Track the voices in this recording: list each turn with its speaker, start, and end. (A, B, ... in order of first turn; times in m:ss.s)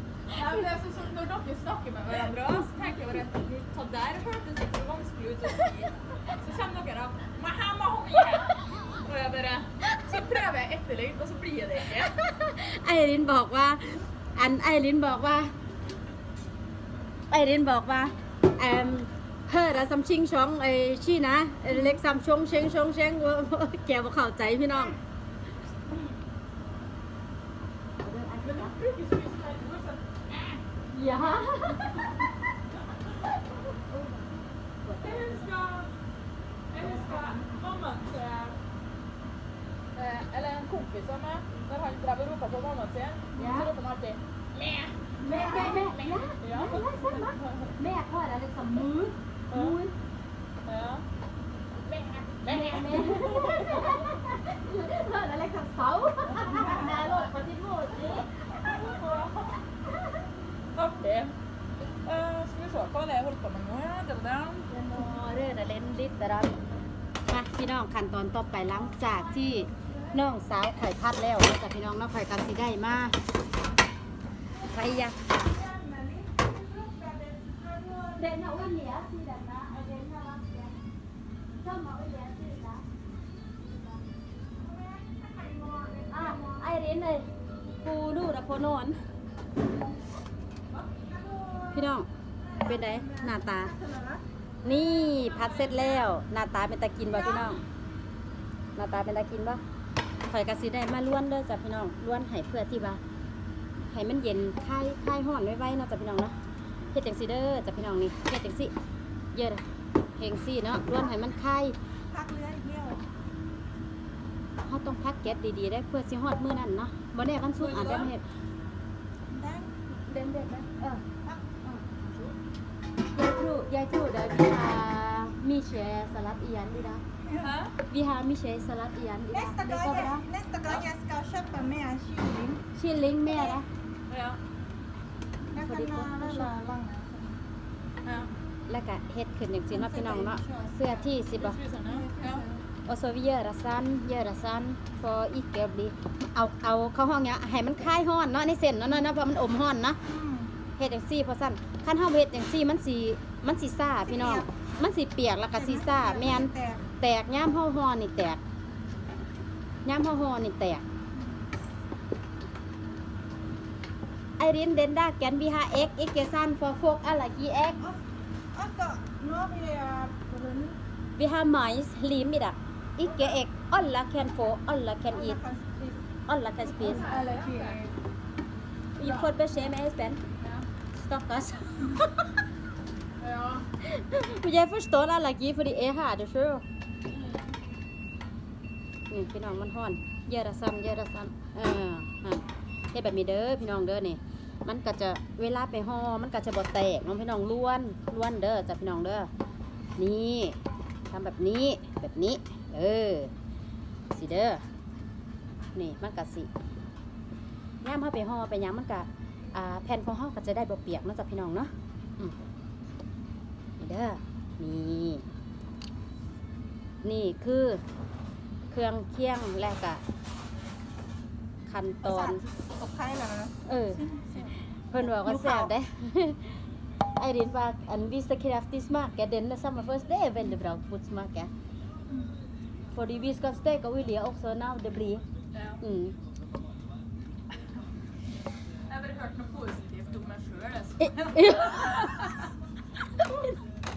0:00.3-0:12.2 A
0:02.3-0:02.8 B
0:12.2-0:15.5 B
0:17.3-0:25.0 B
0:28.0-0:28.7 B
0:28.4-0:30.6 A
0:30.9-0:32.2 B
0:33.9-0:35.5 B
0:35.0-0:35.9 A
0:36.7-0:38.6 A
0:36.8-0:37.6 B
0:40.0-0:47.7 A
0:43.4-0:43.7 B
0:45.2-0:50.0 B
0:45.2-0:45.9 C
0:49.5-0:49.8 A
0:50.7-0:51.0 A
0:51.9-0:54.0 A
0:52.5-0:58.8 B
0:56.4-0:57.2 A
0:56.4-0:57.0 C
0:58.6-0:59.6 A
1:00.8-1:01.4 A
1:02.0-1:04.7 A
1:04.7-1:05.2 C
1:04.9-1:06.6 B
1:07.3-1:13.2 B
1:08.8-1:10.3 C
1:14.6-1:18.8 C
1:14.7-1:15.2 B
1:18.2-1:20.8 B
1:21.6-1:22.9 B
1:24.6-1:26.7 C
1:26.1-1:29.0 B
1:30.9-1:34.2 C
1:31.7-1:32.1 B
1:32.6-1:33.7 B
1:34.6-1:37.6 B
1:34.6-1:36.1 A
1:38.8-1:39.6 B
1:40.3-1:43.0 B
1:43.9-1:46.4 B
1:46.9-1:48.7 B
1:49.3-1:49.6 B
1:50.2-1:51.8 B
1:52.1-1:53.0 C
1:54.6-1:58.2 B
1:57.6-1:58.1 A
1:59.3-1:59.7 C
1:59.9-2:01.0 B
2:03.1-2:07.0 B
2:07.2-2:07.6 C
2:07.4-2:07.7 A
2:07.9-2:10.2 B
2:09.3-2:12.6 C
2:12.8-2:13.7 B
2:13.3-2:13.6 C
2:14.1-2:14.4 A
2:15.5-2:17.4 C
2:15.5-2:16.7 B
2:18.0-2:18.3 A
2:18.7-2:21.6 B
2:19.7-2:21.1 C
2:21.4-2:22.5 A
2:21.8-2:22.6 C
2:22.9-2:30.0 B
2:30.1-2:30.6 C
2:30.8-2:38.4 B
2:34.0-2:34.6 C
2:35.5-2:36.9 C
2:39.8-2:40.8 B
2:41.1-2:41.4 C
2:44.4-2:47.8 B
2:48.5-2:50.8 C
2:51.2-2:55.4 B
2:53.0-2:53.4 C
2:55.1-2:56.1 C
2:56.3-2:57.1 B
2:56.7-2:57.9 C
2:56.8-2:57.9 A
2:59.0-3:00.2 B
2:59.0-2:59.3 A
3:00.4-3:00.7 A
3:00.9-3:02.1 B
3:03.2-3:03.7 A
3:03.8-3:06.6 B
3:07.1-3:07.5 A
3:09.1-3:19.3 B
3:20.0-3:20.6 B
3:21.1-3:23.3 B
3:24.1-3:24.7 B
3:25.8-3:26.5 B
3:27.8-3:32.4 B
3:33.8-3:35.2 B
3:37.0-3:37.8 B
3:38.7-3:40.0 B
3:41.7-3:42.4 B
3:42.0-3:45.7 C
3:43.6-3:44.0 B
3:44.9-3:46.6 B
3:47.2-3:51.5 B
3:52.9-3:55.2 B
3:55.5-3:55.8 A
3:55.8-3:56.2 B
3:58.9-4:02.3 A
4:01.0-4:02.3 B
4:03.2-4:03.6 B